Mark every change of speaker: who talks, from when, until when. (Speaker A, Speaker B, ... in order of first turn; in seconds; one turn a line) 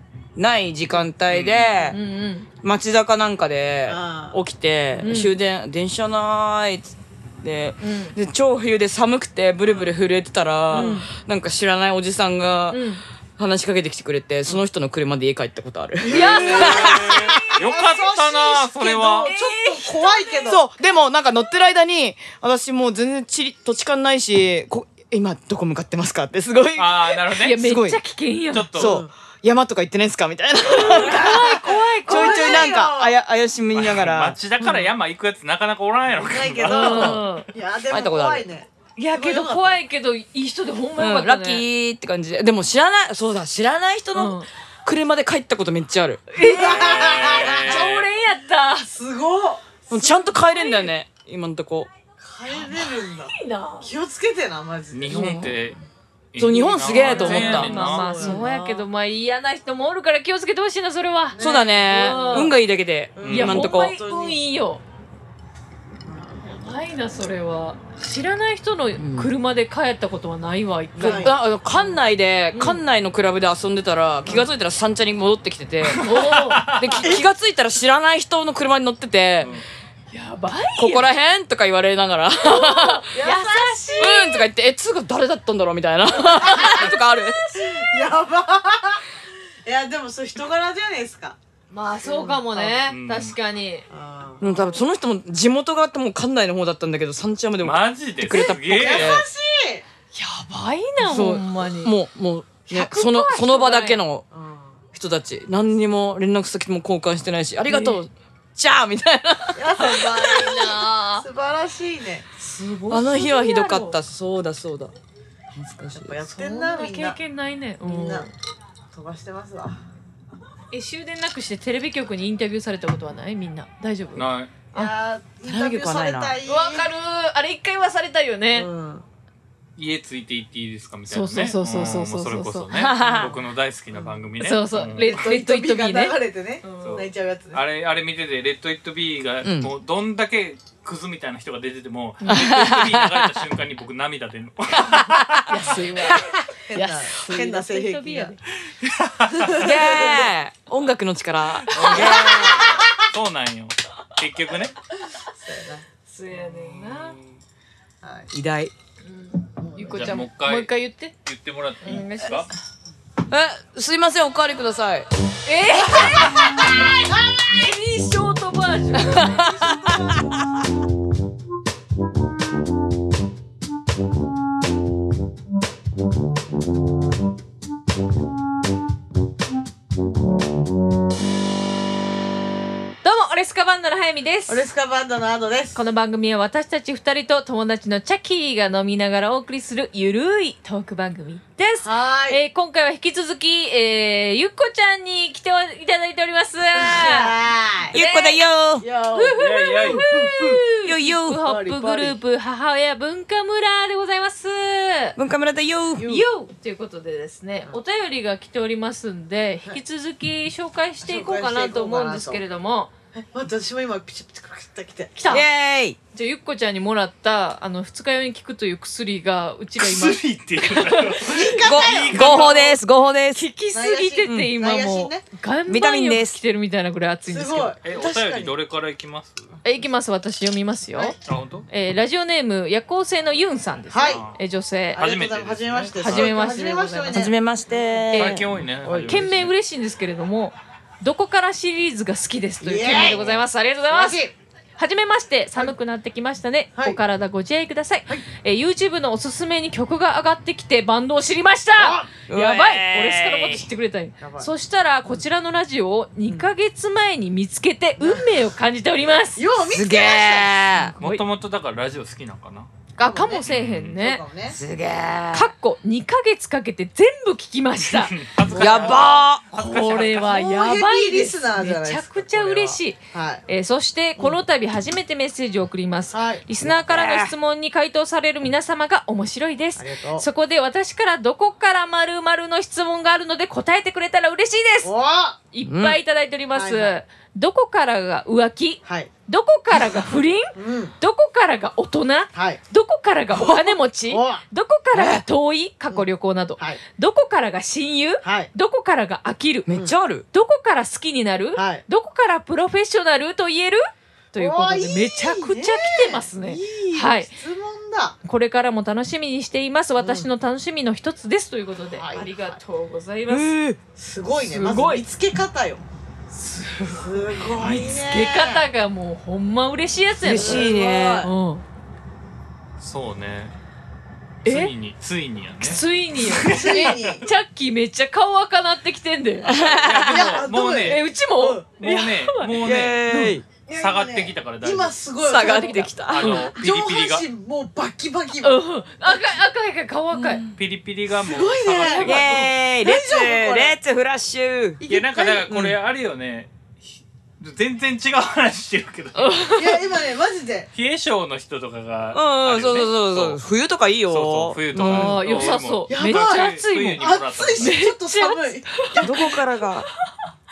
Speaker A: 0.3-2.0
Speaker B: 1.3-1.8
Speaker C: 1.9-2.5
Speaker A: 2.6-12.8
Speaker D: 3.9-4.4
Speaker C: 5.0-5.3
Speaker C: 7.8-8.2
Speaker D: 9.7-9.9
Speaker D: 10.7-11.0
Speaker C: 10.7-11.1
Speaker C: 12.7-13.0
Speaker A: 13.4-17.5
Speaker D: 16.0-20.6
Speaker C: 16.1-17.5
Speaker B: 16.1-19.3
Speaker C: 19.3-19.9
Speaker A: 20.4-28.0
Speaker B: 26.7-27.6
Speaker C: 27.4-28.8
Speaker B: 28.5-29.0
Speaker A: 28.7-31.4
Speaker D: 28.8-29.1
Speaker C: 30.7-32.7
Speaker D: 30.9-33.2
Speaker A: 32.0-34.4
Speaker B: 33.7-37.2
Speaker D: 34.6-34.9
Speaker D: 36.1-39.8
Speaker C: 36.6-37.5
Speaker A: 36.8-37.2
Speaker A: 37.9-38.5
Speaker C: 39.0-41.6
Speaker A: 41.0-46.2
Speaker C: 44.1-44.5
Speaker C: 46.3-48.9
Speaker D: 46.4-47.9
Speaker B: 46.6-48.1
Speaker D: 48.8-49.6
Speaker A: 49.9-51.9
Speaker C: 49.9-50.9
Speaker D: 52.2-55.5
Speaker C: 52.5-53.9
Speaker B: 54.9-55.8
Speaker A: 55.1-55.5
Speaker B: 56.3-58.1
Speaker A: 56.4-58.4
Speaker C: 57.0-62.5
Speaker D: 57.0-58.9
Speaker D: 61.3-62.6
Speaker A: 61.4-64.0
Speaker D: 63.1-64.4
Speaker B: 63.2-63.6
Speaker C: 63.3-64.8
Speaker D: 66.0-66.6
Speaker C: 66.5-72.0
Speaker A: 69.0-69.3
Speaker D: 70.9-71.4
Speaker A: 71.0-76.1
Speaker C: 72.5-72.8
Speaker B: 75.8-77.2
Speaker C: 76.0-76.7
Speaker A: 76.7-79.6
Speaker B: 79.4-79.6
Speaker C: 80.1-81.1
Speaker A: 80.8-83.0
Speaker C: 82.4-84.4
Speaker D: 83.1-84.2
Speaker A: 84.0-87.5
Speaker D: 86.4-86.9
Speaker C: 86.4-87.3
Speaker D: 87.5-89.0
Speaker D: 89.6-91.4
Speaker C: 91.7-93.8
Speaker D: 92.0-92.9
Speaker B: 92.9-93.3
Speaker D: 93.9-94.8
Speaker A: 94.4-99.2
Speaker B: 97.6-99.2
Speaker D: 98.3-99.8
Speaker C: 100.1-101.9
Speaker A: 101.0-104.2
Speaker C: 102.7-104.0
Speaker D: 104.3-104.8
Speaker A: 104.9-109.6
Speaker C: 107.7-108.0
Speaker D: 109.5-112.2
Speaker C: 109.8-111.3
Speaker C: 112.4-114.0
Speaker A: 112.9-114.9
Speaker A: 115.5-116.1
Speaker D: 115.9-117.2
Speaker C: 116.3-118.3
Speaker D: 117.8-118.3
Speaker D: 118.9-119.8
Speaker C: 120.7-124.9
Speaker B: 124.2-124.5
Speaker D: 124.7-126.9
Speaker A: 125.5-126.3
Speaker C: 126.4-128.7
Speaker D: 128.5-129.0
Speaker B: 129.8-135.1
Speaker C: 131.1-132.8
Speaker A: 132.7-133.3
Speaker D: 133.0-133.4
Speaker D: 133.9-134.2
Speaker C: 134.4-137.0
Speaker D: 134.8-137.6
Speaker B: 136.8-145.6
Speaker A: 139.4-139.7
Speaker C: 142.2-142.5
Speaker A: 142.3-143.3
Speaker A: 144.8-145.4
Speaker C: 145.5-148.4
Speaker D: 146.7-148.3
Speaker B: 148.8-149.8
Speaker D: 149.3-150.3
Speaker A: 149.5-152.7
Speaker C: 150.0-150.2
Speaker B: 151.7-154.8
Speaker C: 151.7-152.5
Speaker D: 152.2-152.9
Speaker D: 155.2-155.8
Speaker C: 156.0-157.2
Speaker B: 156.5-157.3
Speaker D: 158.0-158.3
Speaker A: 158.3-158.7
Speaker C: 159.0-161.1
Speaker D: 159.6-160.2
Speaker B: 159.9-160.7
Speaker B: 161.2-162.5
Speaker C: 161.8-162.5
Speaker A: 163.3-165.1
Speaker C: 165.4-166.9
Speaker D: 165.7-167.7
Speaker C: 167.5-169.9
Speaker A: 169.0-170.2
Speaker D: 169.6-170.2
Speaker C: 183.0-184.7
Speaker D: 184.5-185.8
Speaker C: 185.7-197.3
Speaker D: 191.8-192.4
Speaker D: 196.7-198.0
Speaker A: 197.9-198.8
Speaker C: 197.9-198.4
Speaker D: 198.8-200.6
Speaker C: 199.1-205.2
Speaker B: 199.4-200.0
Speaker A: 200.8-201.4
Speaker D: 201.4-202.2
Speaker A: 205.2-206.2
Speaker C: 206.0-212.9
Speaker D: 211.0-212.4
Speaker D: 213.1-215.2
Speaker C: 215.2-215.4
Speaker A: 215.3-216.0
Speaker C: 216.1-221.6
Speaker B: 219.8-222.8
Speaker D: 221.2-222.6
Speaker A: 221.6-223.4
Speaker C: 222.3-222.6
Speaker C: 223.3-227.7
Speaker D: 223.7-225.2
Speaker A: 224.2-224.5
Speaker A: 225.7-226.4
Speaker D: 227.3-228.5
Speaker B: 227.8-229.6
Speaker C: 229.6-231.2
Speaker B: 231.2-231.7
Speaker C: 231.7-235.1
Speaker D: 233.9-234.2
Speaker B: 234.1-234.4
Speaker B: 234.9-236.3
Speaker D: 234.9-238.3
Speaker C: 236.0-237.3
Speaker A: 237.1-238.4
Speaker B: 238.1-239.5
Speaker D: 238.8-239.3
Speaker C: 239.1-259.4
Speaker D: 242.6-244.3
Speaker A: 242.9-243.2
Speaker D: 251.8-252.1
Speaker A: 252.3-253.7
Speaker D: 254.2-254.5
Speaker D: 258.0-258.3
Speaker D: 259.3-260.9
Speaker A: 259.7-260.9
Speaker B: 261.0-262.7
Speaker C: 263.0-264.2
Speaker D: 263.0-264.6
Speaker B: 263.5-264.0
Speaker A: 264.5-265.5
Speaker C: 265.3-268.2
Speaker B: 267.9-270.4
Speaker D: 268.5-273.4
Speaker A: 268.5-269.4
Speaker C: 269.6-284.9
Speaker D: 276.1-277.0
Speaker A: 276.8-277.3
Speaker D: 279.8-280.3
Speaker D: 284.8-285.4
Speaker C: 285.5-299.7
Speaker A: 285.6-286.0
Speaker D: 286.5-287.0
Speaker D: 288.8-289.1
Speaker D: 290.5-290.9
Speaker D: 292.3-292.6
Speaker D: 293.3-294.4
Speaker A: 294.9-295.2
Speaker D: 298.2-298.5
Speaker A: 299.7-300.2
Speaker D: 299.7-299.9
Speaker C: 300.3-307.3
Speaker D: 301.5-301.8
Speaker D: 304.4-308.1
Speaker C: 308.2-313.5
Speaker D: 310.0-310.3
Speaker D: 311.9-312.6
Speaker A: 313.3-313.8
Speaker D: 313.9-315.8
Speaker C: 314.3-315.0
Speaker C: 316.3-317.1
Speaker D: 316.9-318.7
Speaker B: 317.6-318.1
Speaker C: 317.6-321.6
Speaker D: 320.2-321.3
Speaker A: 320.3-321.3
Speaker B: 322.8-323.5
Speaker B: 324.4-327.2
Speaker C: 324.4-324.7
Speaker C: 325.6-329.5
Speaker D: 326.4-327.3
Speaker D: 329.4-331.7
Speaker A: 329.4-330.1
Speaker B: 329.5-331.1
Speaker C: 330.8-332.5
Speaker B: 331.8-333.2
Speaker A: 332.6-333.4
Speaker C: 333.1-333.4
Speaker D: 333.6-335.8
Speaker B: 333.7-334.9
Speaker A: 335.2-336.5
Speaker C: 335.3-336.4
Speaker B: 336.1-337.2
Speaker D: 336.5-339.3
Speaker C: 338.4-340.4
Speaker A: 340.1-340.6
Speaker B: 340.6-342.5
Speaker D: 341.1-342.2
Speaker C: 341.7-342.4
Speaker A: 342.0-344.8
Speaker D: 342.8-343.8
Speaker D: 344.8-345.5
Speaker B: 344.9-346.8
Speaker A: 345.5-345.8
Speaker B: 347.4-349.6
Speaker C: 349.1-349.8
Speaker D: 349.5-350.7
Speaker B: 350.7-353.4
Speaker A: 352.1-355.4
Speaker B: 354.1-357.8
Speaker C: 354.7-359.4
Speaker D: 355.9-359.4
Speaker A: 359.0-359.9
Speaker C: 359.9-360.3